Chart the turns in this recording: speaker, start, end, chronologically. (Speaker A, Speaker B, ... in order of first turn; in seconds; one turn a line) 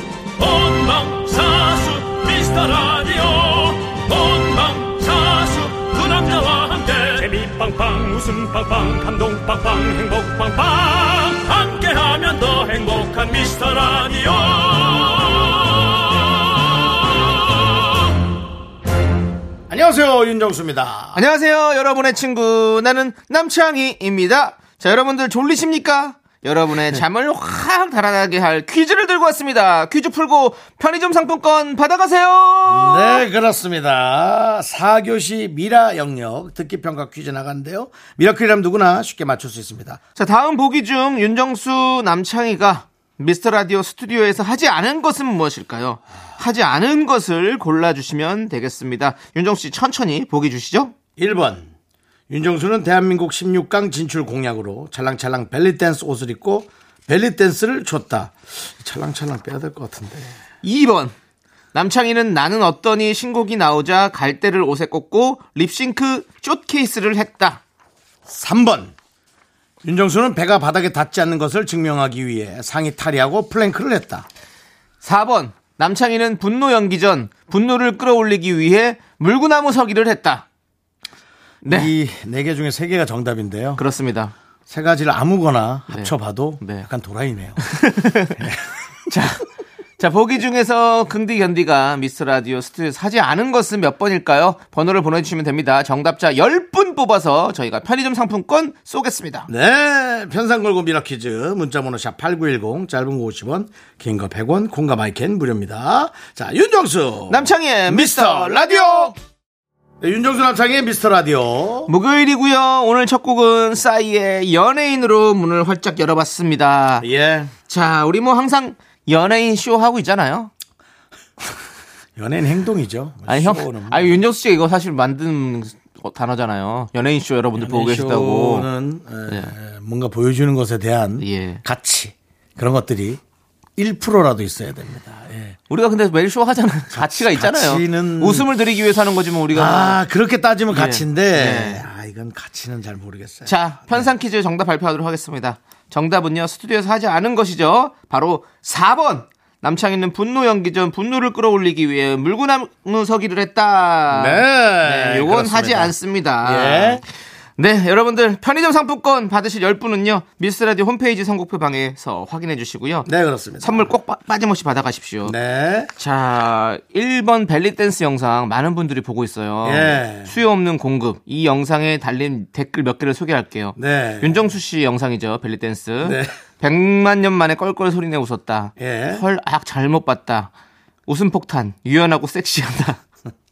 Speaker A: 0.4-17.9
Speaker B: 19.7-21.2
Speaker C: 21.1-33.2
Speaker B: 32.7-40.0
Speaker C: 40.2-50.9
Speaker B: 51.2-51.7
Speaker B: 52.3-60.4
Speaker C: 60.6-61.1
Speaker C: 61.7-67.6
Speaker B: 68.3-68.9
Speaker B: 69.8-74.3
Speaker C: 75.0-80.4
Speaker C: 81.6-81.9
Speaker B: 81.7-83.8
Speaker C: 83.8-84.3
Speaker B: 84.7-87.6
Speaker C: 85.9-86.9
Speaker C: 87.6-88.5
Speaker B: 88.4-88.7
Speaker C: 89.1-89.5
Speaker C: 90.0-99.5
Speaker B: 99.5-109.1
Speaker C: 107.3-109.1
Speaker B: 110.0-111.9
Speaker C: 111.9-117.1
Speaker B: 117.0-117.5
Speaker C: 117.7-120.5
Speaker B: 122.2-124.2
Speaker C: 123.3-128.7
Speaker B: 127.6-133.2
Speaker C: 131.2-131.6
Speaker B: 133.8-135.6
Speaker C: 135.7-140.0
Speaker B: 136.9-138.5
Speaker B: 139.5-144.1
Speaker C: 140.7-141.8
Speaker C: 143.4-157.0
Speaker B: 154.1-157.0
Speaker C: 157.6-163.1
Speaker B: 163.1-163.9
Speaker C: 163.6-165.3
Speaker B: 165.2-165.9
Speaker C: 166.0-180.5
Speaker B: 169.6-170.3
Speaker B: 173.8-174.5
Speaker B: 176.0-176.3
Speaker B: 178.8-179.2
Speaker C: 181.1-183.0